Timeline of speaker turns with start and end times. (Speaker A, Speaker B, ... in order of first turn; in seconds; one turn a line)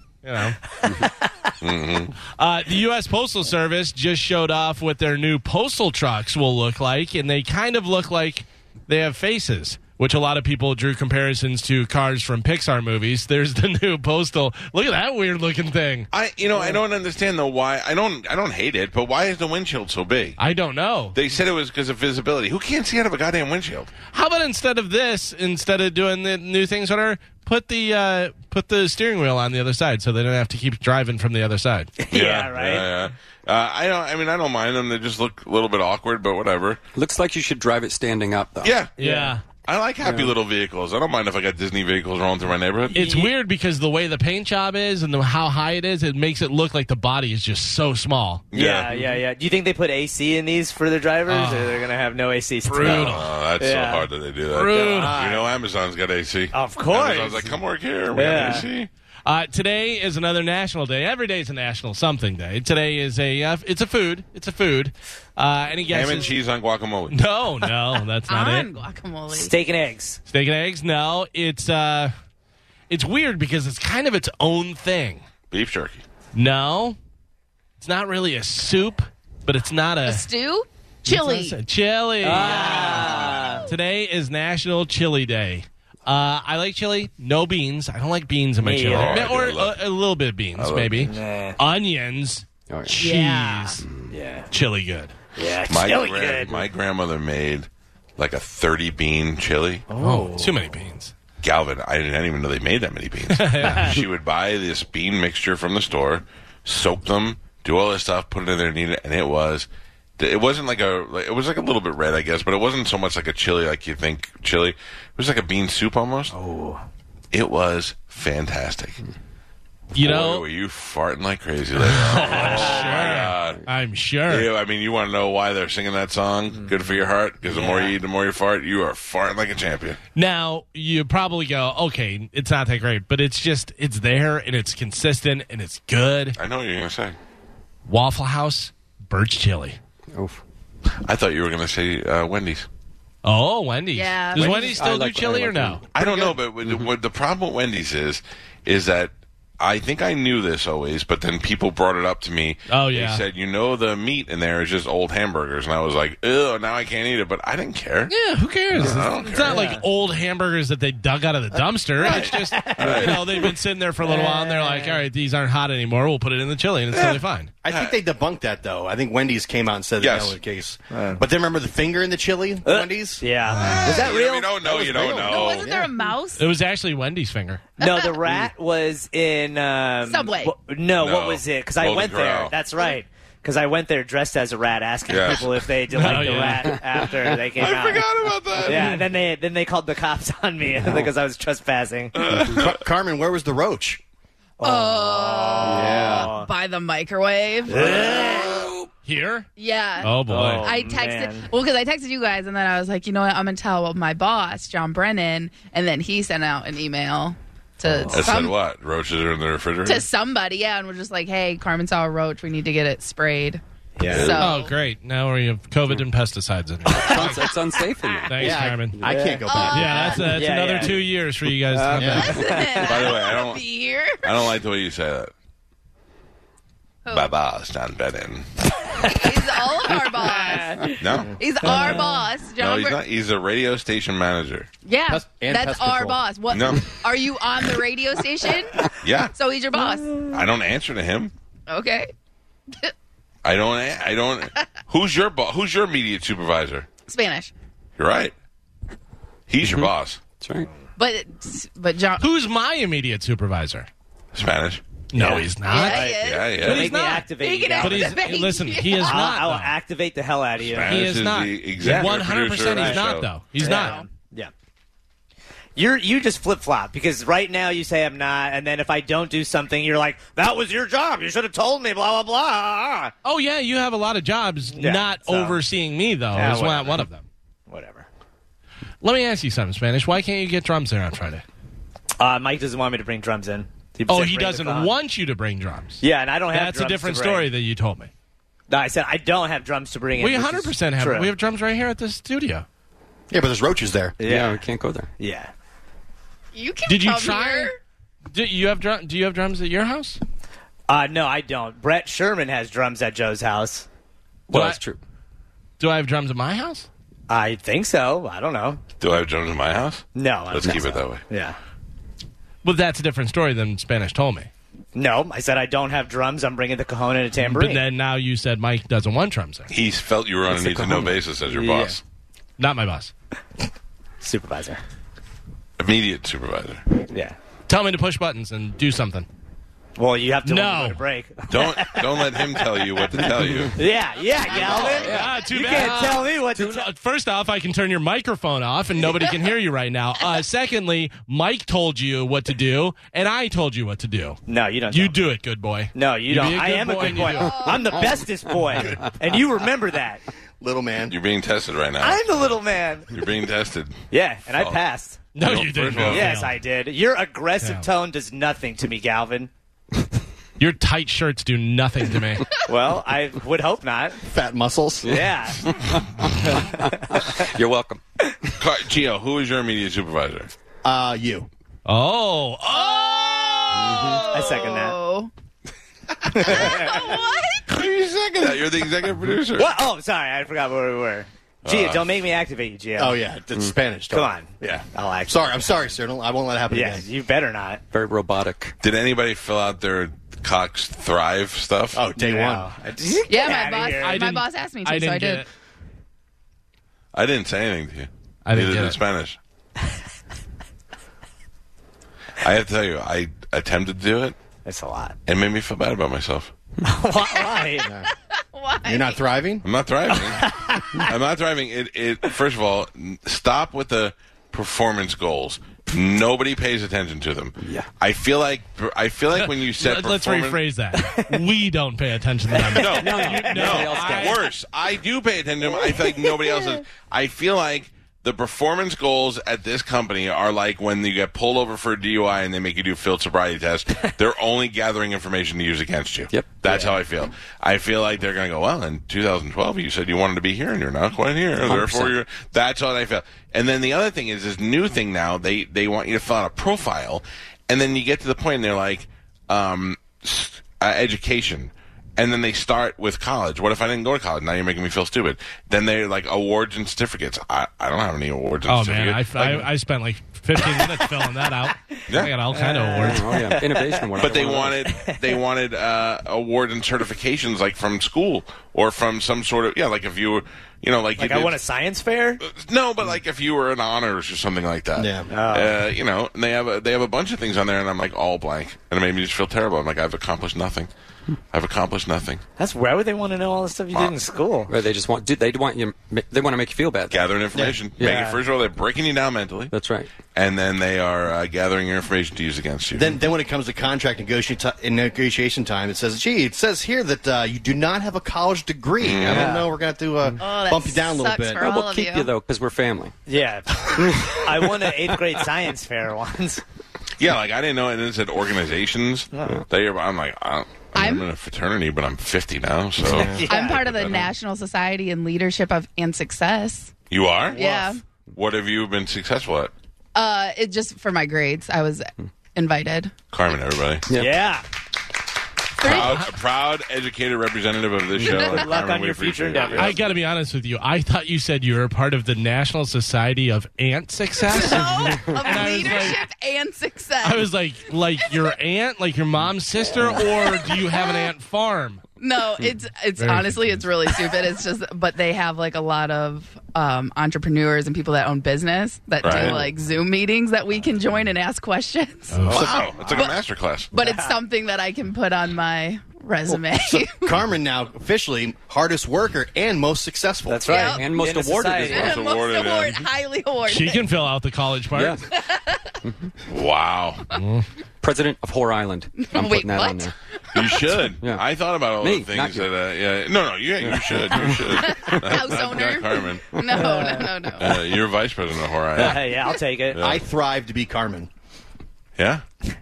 Speaker A: 0.2-0.6
Speaker B: 0.7-1.5
Speaker C: 1.6-2.1
Speaker A: 2.4-16.1
Speaker C: 16.1-20.4
Speaker A: 20.4-21.2
Speaker C: 21.1-23.9
Speaker A: 24.1-31.9
Speaker B: 32.0-32.9
Speaker C: 32.1-36.8
Speaker D: 37.0-38.8
Speaker C: 38.6-38.9
Speaker B: 39.0-39.4
Speaker A: 39.0-39.4
Speaker C: 39.6-43.0
Speaker D: 40.0-40.3
Speaker A: 42.9-48.4
Speaker B: 43.0-43.3
Speaker C: 48.5-48.9
Speaker B: 48.5-54.1
Speaker A: 51.3-51.8
Speaker A: 52.6-53.3
Speaker C: 52.8-58.9
Speaker A: 54.5-55.2
Speaker B: 54.6-55.5
Speaker B: 56.5-57.5
Speaker B: 58.1-58.7
Speaker A: 59.3-66.3
Speaker C: 65.9-67.2
Speaker A: 67.1-68.7
Speaker E: 68.3-69.5
Speaker B: 69.3-70.2
Speaker A: 70.3-72.1
Speaker A: 72.9-75.2
Speaker C: 75.5-76.0
Speaker A: 76.3-77.0
Speaker A: 77.8-80.3
Speaker E: 80.1-81.6
Speaker A: 81.1-93.8
Speaker B: 82.2-83.7
Speaker B: 88.6-89.3
Speaker C: 88.9-89.8
Speaker C: 90.6-91.1
Speaker B: 91.1-91.6
Speaker D: 92.7-92.9
Speaker E: 93.0-93.5
Speaker B: 93.0-94.5
Speaker D: 93.8-94.1
Speaker A: 94.5-95.1
Speaker B: 95.4-96.6
Speaker C: 95.7-99.9
Speaker B: 99.9-100.6
Speaker A: 100.0-101.1
Speaker C: 101.4-116.3
Speaker A: 103.3-104.0
Speaker B: 116.3-116.8
Speaker C: 117.3-119.0
Speaker A: 120.0-120.5
Speaker C: 120.0-123.6
Speaker A: 121.8-124.5
Speaker B: 122.3-123.2
Speaker C: 124.3-130.0
Speaker B: 127.5-127.9
Speaker A: 130.2-136.4
Speaker C: 136.4-137.2
Speaker A: 137.9-139.8
Speaker D: 140.1-140.4
Speaker C: 141.0-142.7
Speaker A: 143.2-145.8
Speaker E: 143.9-144.9
Speaker D: 144.4-146.0
Speaker C: 145.9-158.1
Speaker A: 152.7-153.2
Speaker A: 158.1-167.5
Speaker C: 158.7-159.7
Speaker B: 159.4-159.8
Speaker B: 162.0-163.5
Speaker C: 162.0-163.2
Speaker B: 164.0-165.0
Speaker C: 166.9-168.0
Speaker F: 167.6-173.2
Speaker C: 170.0-170.4
Speaker B: 170.9-171.2
Speaker B: 172.7-175.2
Speaker A: 173.5-173.9
Speaker C: 173.6-175.7
Speaker F: 174.8-176.0
Speaker E: 175.2-176.4
Speaker A: 176.4-177.6
Speaker E: 177.8-178.2
Speaker B: 177.8-188.1
Speaker E: 180.0-180.5
Speaker C: 181.0-182.6
Speaker C: 185.1-185.7
Speaker A: 185.9-186.8
Speaker D: 186.1-187.1
Speaker C: 187.6-189.0
Speaker B: 188.6-192.3
Speaker C: 192.2-192.8
Speaker F: 192.4-194.0
Speaker B: 194.6-196.5
Speaker E: 194.6-198.6
Speaker D: 195.7-196.2
Speaker B: 197.7-198.7
Speaker A: 199.1-199.5
Speaker E: 199.6-208.5
Speaker A: 200.0-200.7
Speaker B: 200.3-201.5
Speaker B: 207.8-208.3
Speaker C: 208.1-210.1
Speaker E: 209.8-214.7
Speaker B: 214.0-214.4
Speaker C: 214.1-214.5
Speaker A: 214.3-217.4
Speaker B: 216.9-217.6
Speaker D: 216.9-219.1
Speaker A: 218.3-219.0
Speaker F: 218.4-220.3
Speaker B: 219.0-219.6
Speaker E: 219.5-220.2
Speaker A: 219.6-222.4
Speaker B: 220.1-221.0
Speaker B: 221.7-223.1
Speaker F: 221.9-222.2
Speaker E: 222.1-224.2
Speaker C: 222.8-223.6
Speaker C: 224.2-225.3
Speaker E: 227.1-227.3
Speaker C: 227.1-228.5
Speaker E: 229.1-233.0
Speaker B: 230.1-231.0
Speaker C: 231.0-232.0
Speaker B: 231.6-232.2
Speaker C: 232.6-234.7
Speaker E: 234.8-240.2
Speaker F: 235.1-236.3
Speaker C: 236.5-236.9
Speaker C: 239.0-239.3
Speaker C: 240.3-241.3
Speaker E: 241.7-242.1
Speaker C: 243.4-246.9
Speaker E: 247.1-247.5
Speaker C: 248.0-248.3
Speaker C: 249.5-250.2
Speaker D: 249.6-250.7
Speaker E: 251.0-252.2
Speaker A: 252.2-253.9
Speaker C: 254.3-254.8
Speaker A: 255.1-256.1
Speaker B: 255.2-258.2
Speaker E: 255.6-256.7
Speaker C: 256.1-256.9
Speaker A: 256.6-259.8
Speaker E: 257.4-259.2
Speaker B: 259.0-261.0
Speaker C: 260.6-263.3
Speaker A: 260.9-264.0
Speaker B: 261.8-263.1
Speaker B: 263.6-264.5
Speaker E: 263.7-264.1
Speaker B: 265.8-273.1
Speaker A: 273.2-277.3
Speaker B: 274.8-275.6
Speaker B: 276.3-277.1
Speaker B: 277.7-278.1
Speaker A: 279.0-281.4
Speaker B: 282.2-284.9
Speaker A: 284.1-288.1
Speaker B: 286.0-287.5
Speaker B: 288.7-291.3
Speaker A: 290.2-292.7
Speaker F: 293.3-294.2
Speaker B: 294.2-294.7
Speaker D: 294.2-295.1
Speaker B: 295.2-295.5
Speaker E: 296.5-297.8
Speaker A: 296.9-297.7
Speaker A: 298.3-300.2
Speaker B: 300.9-303.9
Speaker A: 304.5-304.8
Speaker D: 304.5-305.0
Speaker A: 305.8-306.9
Speaker B: 307.3-308.8
Speaker C: 309.0-311.2
Speaker B: 310.2-311.6
Speaker A: 312.6-314.5
Speaker B: 314.9-317.8
Speaker A: 317.4-319.7
Speaker C: 319.7-322.0
Speaker D: 320.5-321.1
Speaker B: 321.5-322.0
Speaker A: 322.6-323.1
Speaker B: 324.2-324.8
Speaker C: 325.8-326.8
Speaker B: 327.1-327.4
Speaker A: 327.7-329.3
Speaker B: 330.0-336.9
Speaker A: 330.4-331.0
Speaker C: 331.5-333.8
Speaker C: 334.5-335.2
Speaker D: 334.7-336.7
Speaker A: 335.0-347.8
Speaker B: 344.5-345.2
Speaker B: 345.9-350.2
Speaker E: 347.4-348.1
Speaker D: 348.1-349.0
Speaker F: 350.6-351.1
Speaker C: 351.1-354.0
Speaker B: 352.0-353.1
Speaker B: 354.1-355.2
Speaker C: 354.6-354.8
Speaker A: 355.4-356.6
Speaker C: 355.4-356.4
Speaker B: 356.0-359.5
Speaker A: 360.6-362.5
Speaker B: 362.7-364.2
Speaker F: 364.2-365.1
Speaker D: 365.0-368.0
Speaker B: 365.1-365.8
Speaker B: 366.4-367.4
Speaker C: 368.6-370.5
Speaker F: 370.8-371.5
Speaker A: 371.9-373.6
Speaker E: 372.7-375.3
Speaker D: 373.8-374.2
Speaker B: 374.3-375.0
Speaker B: 376.3-377.2
Speaker E: 376.4-377.7
Speaker C: 377.7-379.8
Speaker B: 379.6-383.2
Speaker C: 381.6-382.1
Speaker F: 383.0-387.1
Speaker B: 384.1-385.9
Speaker B: 386.7-387.8
Speaker D: 387.9-388.8
Speaker C: 388.8-392.0
Speaker F: 391.9-392.7
Speaker B: 392.2-394.2
Speaker E: 393.3-395.4
Speaker A: 394.0-395.5
Speaker C: 397.1-399.4
Speaker A: 398.4-399.0
Speaker C: 402.4-404.4
Speaker B: 404.6-405.2
Speaker C: 405.3-406.5
Speaker B: 406.8-407.9
Speaker E: 407.5-409.2
Speaker F: 408.9-409.6
Speaker C: 409.6-420.6
Speaker B: 410.1-411.1
Speaker D: 417.6-417.9
Speaker A: 419.4-424.4
Speaker B: 421.0-421.4
Speaker B: 422.6-424.0
Speaker C: 422.8-459.7
Speaker D: 423.0-424.4
Speaker D: 436.3-436.6
Speaker B: 436.7-437.0
Speaker D: 441.6-442.1
Speaker A: 458.7-463.3
Speaker B: 460.6-465.3
Speaker C: 462.1-462.4
Speaker D: 463.0-464.8
Speaker C: 464.2-471.6
Speaker B: 471.2-472.4
Speaker C: 472.4-480.9
Speaker F: 475.0-475.3
Speaker B: 475.3-475.8
Speaker C: 481.5-482.4
Speaker B: 482.6-484.7
Speaker D: 484.7-487.4
Speaker C: 487.1-489.7
Speaker D: 488.0-488.3
Speaker B: 488.0-488.4
Speaker D: 489.7-490.1
Speaker C: 490.3-493.2
Speaker F: 492.9-501.7
Speaker C: 499.0-499.5
Speaker B: 499.3-499.7
Speaker E: 500.4-502.3
Speaker D: 501.6-503.1
Speaker B: 503.3-506.6
Speaker D: 504.1-505.1
Speaker C: 507.2-514.3
Speaker B: 509.4-509.6
Speaker E: 510.9-511.3
Speaker B: 513.1-514.3
Speaker E: 513.5-516.9
Speaker C: 517.1-517.6
Speaker B: 517.5-517.9
Speaker E: 517.5-518.0
Speaker C: 518.3-519.7
Speaker E: 520.1-523.1
Speaker C: 523.3-524.1
Speaker D: 524.1-524.4
Speaker B: 524.1-524.6
Speaker E: 525.8-526.2
Speaker C: 525.8-530.0
Speaker B: 528.3-530.1
Speaker E: 528.3-528.5
Speaker A: 529.8-536.2
Speaker E: 534.5-537.5
Speaker A: 537.2-542.0
Speaker E: 540.0-541.2
Speaker E: 542.2-553.4
Speaker A: 543.2-543.8
Speaker C: 549.2-549.6
Speaker A: 552.3-552.7
Speaker C: 552.5-553.9
Speaker B: 552.6-553.0
Speaker E: 553.9-557.4
Speaker B: 553.9-554.4
Speaker F: 557.2-560.9
Speaker B: 560.5-562.2
Speaker E: 560.6-561.1
Speaker D: 560.8-562.1
Speaker E: 561.8-564.1
Speaker C: 561.8-563.0
Speaker A: 563.7-565.2
Speaker D: 564.9-565.2
Speaker E: 565.3-566.0
Speaker D: 566.0-566.3
Speaker C: 566.5-567.2
Speaker A: 567.3-567.6
Speaker D: 568.0-570.1
Speaker E: 569.2-570.9
Speaker C: 570.5-576.8
Speaker D: 571.2-571.5
Speaker D: 572.0-572.7
Speaker D: 573.8-575.1
Speaker E: 574.6-577.9
Speaker B: 576.7-577.3
Speaker C: 577.6-580.2
Speaker B: 579.0-580.1
Speaker F: 580.0-581.3
Speaker C: 582.2-582.4